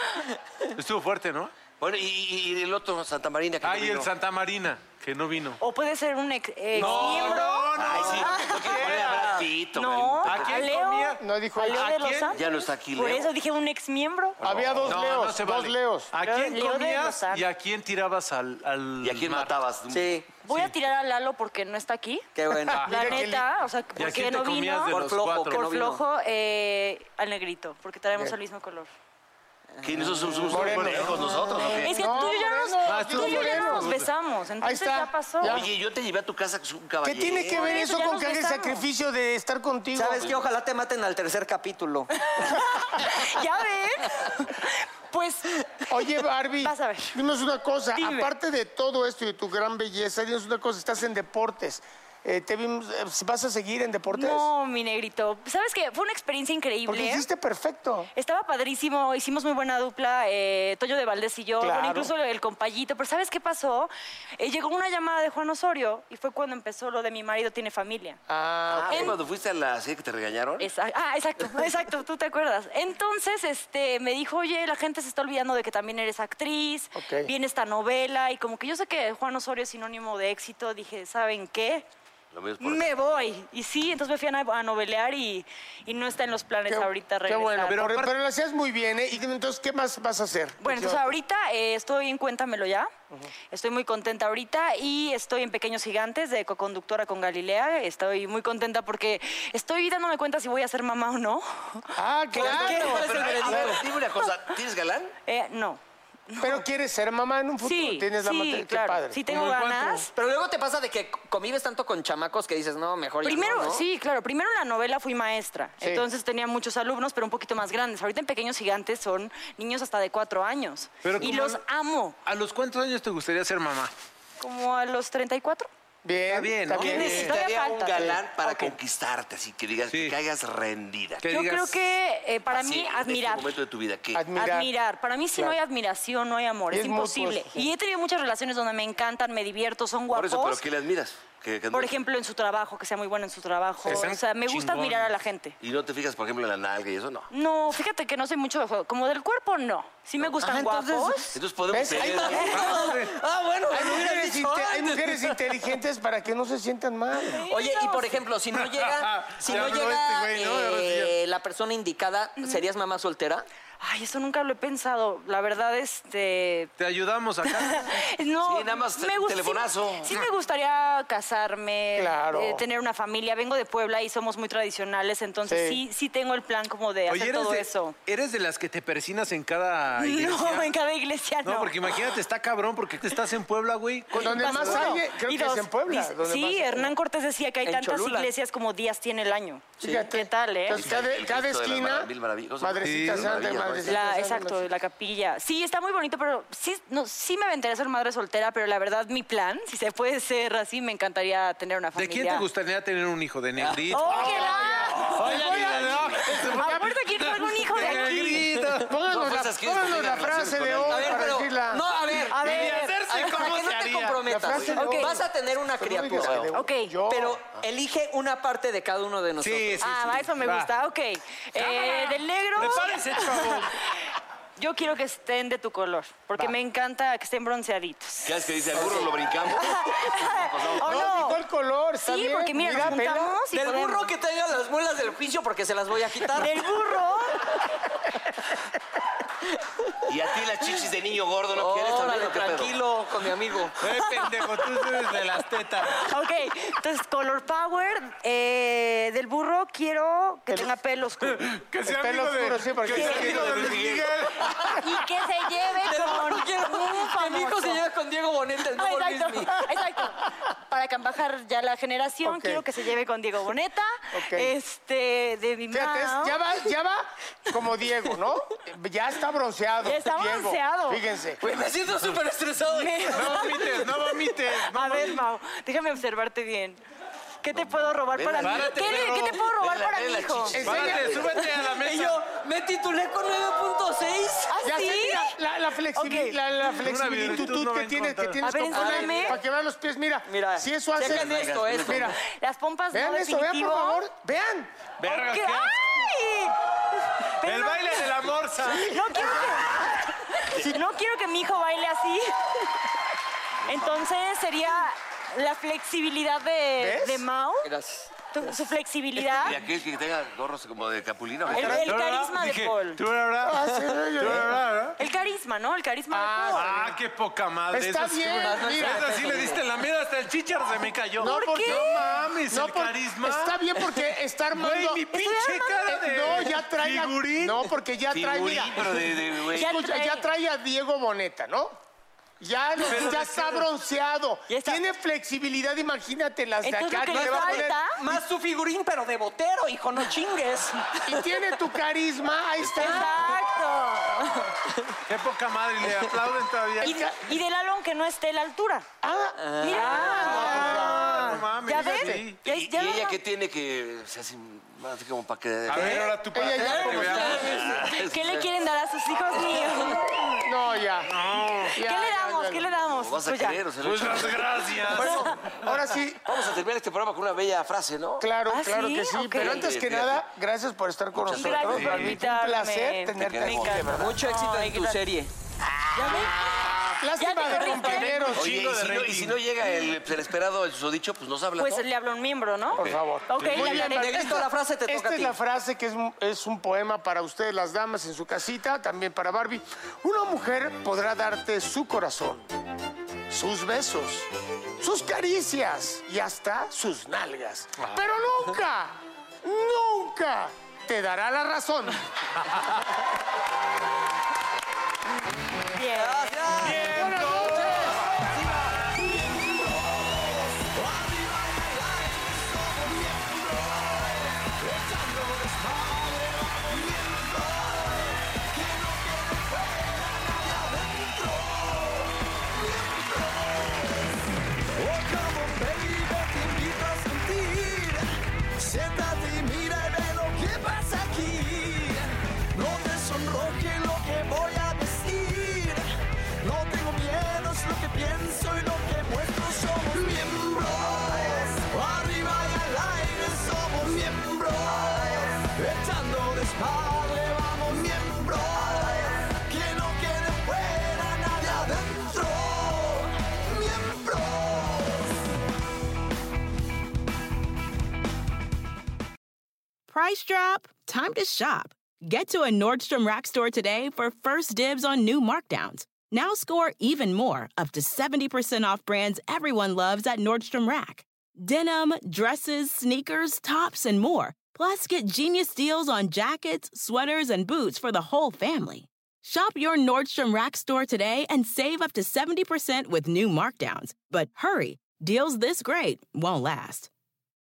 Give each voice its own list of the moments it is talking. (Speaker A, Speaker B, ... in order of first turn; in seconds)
Speaker A: 0.8-1.5, 3.6-5.6, 6.7-9.5, 10.2-12.4, 14.9-19.6, 20.5-20.7, 22.7-23.3, 24.0-25.6, 30.5-31.2, 32.9-34.1, 87.7-88.1, 121.0-121.6, 122.2-123.9, 126.3-127.3, 129.9-130.2, 131.2-131.8, 143.8-145.1, 150.4-151.1, 152.5-153.2, 158.6-161.1, 166.8-167.9, 177.1-180.7, 181.4-185.0, 192.8-193.4, 201.9-208.9, 212.3-214.3, 219.4-220.7, 222.6-223.9, 243.8-246.0, 251.2-254.9, 273.1-275.2, 278.4-279.5, 280.6-282.2, 286.8-288.5, 295.0-295.9, 297.4-299.0, 311.7-313.6, 314.2-315.0, 316.5-327.7, 332.8-333.7, 345.1-347.0, 349.9-352.4, 355.7-357.6, 361.1-361.8, 363.8-365.9, 371.7-372.2, 377.5-379.4, 383.4-383.7, 406.6-408.8
Speaker B: 1.8-4.1, 6.8-10.7, 12.3-13.3, 14.4-15.0, 19.0-20.3, 29.8-32.3, 35.4-37.7, 68.7-70.7, 82.3-82.9, 102.4-105.1, 126.8-131.3, 132.5-134.3, 140.1-142.0, 145.6-147.3, 151.3-152.7, 168.4-170.2, 190.7-194.1, 204.9-206.5, 209.1-211.5, 216.1-216.7, 228.2-231.3, 240.1-242.7, 253.4-253.9, 277.5-281.4, 291.0-292.2, 303.7-304.1, 309.3-311.9, 328.1-329.8, 342.6-343.0, 352.4-356.2, 357.2-358.5, 362.7-364.7, 366.2-368.3, 369.3-370.2, 371.1-372.0, 373.1-374.0, 376.4-376.9, 378.3-381.9, 382.7-383.0
Speaker C: 5.6-8.9, 9.8-14.4, 16.2-17.5, 20.4-22.3, 22.9-24.9, 25.5-28.9, 31.8-35.5, 37.5-38.9, 42.2-45.8, 46.6-47.2, 48.0-48.3, 54.1-57.3, 58.2-68.2, 68.9-69.2, 70.6-81.9, 82.6-87.9, 90.6-92.9, 93.5-103.3, 105.3-106.6, 107.6-110.1, 113.2-122.2, 124.4-125.7, 126.8-128.2, 131.3-133.5, 134.3-140.6, 141.7-145.6, 147.3-151.3, 157.3-158.2, 163.8-166.7, 167.4-177.9, 180.0-182.1, 184.2-190.8, 193.9-202.5, 203.9-205.0, 206.5-208.5, 212.3-213.0, 214.7-215.2, 216.5-216.9, 219.8-223.9, 224.6-228.7, 229.5-231.4, 232.0-234.1, 236.4-237.5, 244.0-244.3, 245.9-251.5, 253.0-253.3, 254.8-257.8, 258.8-266.4, 269.8-271.0, 272.8-274.1, 274.6-276.8, 277.4-280.6, 284.5-285.4, 285.9-286.4, 288.4-289.4, 292.2-294.1, 295.0-296.6, 297.4-298.1, 298.6-302.3, 303.7-307.7, 308.3-309.6, 311.5-313.0, 315.0-316.7, 321.2-322.1, 325.1-325.8, 329.6-330.3, 334.5-334.8, 336.6-338.0, 342.7-344.5, 346.8-348.9, 349.6-353.2, 357.5-360.2, 361.8-363.6, 365.0-365.5, 368.5-369.7, 371.3-375.0, 376.0-378.4, 381.6-384.3, 405.7-406.5
Speaker D: 11.2-11.9, 14.4-16.1, 22.9-23.5, 30.5-34.0, 34.6-35.7, 37.0-40.2, 45.9-54.5, 56.9-58.1, 61.6-62.1, 68.3-69.2, 77.0-77.3, 86.7-91.1, 102.0-103.8, 106.4-110.1, 126.0-127.4, 134.1-134.7, 136.7-137.7, 151.7-152.7, 153.7-157.4, 171.9-172.6, 175.5-175.8, 184.1-186.9, 189.8-194.7, 204.1-205.9, 206.6-206.9, 208.9-211.8, 214.2-215.2, 215.8-217.4, 230.8-233.4, 251.9-254.0, 262.2-262.6, 264.1-264.6, 265.7-271.4, 280.5-281.3, 284.6-292.2, 292.9-294.9, 306.8-307.2, 311.5-312.0, 313.4-314.6, 316.1-317.0, 317.7-319.1, 321.2-329.0, 329.6-331.7, 332.4-337.8, 341.1-343.4, 346.8-347.2, 349.0-352.3, 355.7-357.6, 360.3-361.2, 361.7-362.6, 365.0-366.2, 368.2-374.1, 377.0-378.5, 382.8-392.5, 393.3-394.3, 394.8-402.0, 406.6-408.7
Speaker E: 19.9-20.3, 22.4-22.9, 24.9-26.0, 29.8-30.5, 40.0-42.1, 102.3-103.8, 110.1-113.8, 150.4-151.3, 151.9-155.3, 157.5-163.4, 187.6-188.3, 203.6-204.1, 205.0-205.8, 208.5-208.8, 210.9-216.4, 217.1-220.3, 228.7-229.1, 233.5-236.6, 241.5-243.8, 253.0-253.9, 255.8-259.6, 271.4-273.2, 281.7-284.6, 288.7-289.4, 290.3-292.1, 307.6-308.1, 318.3-319.6, 337.1-341.2, 349.4-350.6, 356.6-357.7, 373.9-375.3, 375.9-376.3, 383.5-385.4, 405.9-406.8
Speaker F: 408.8-424.2, 424.7-428.1, 428.6-435.9, 436.4-455.2
Speaker G: 459.9-486.9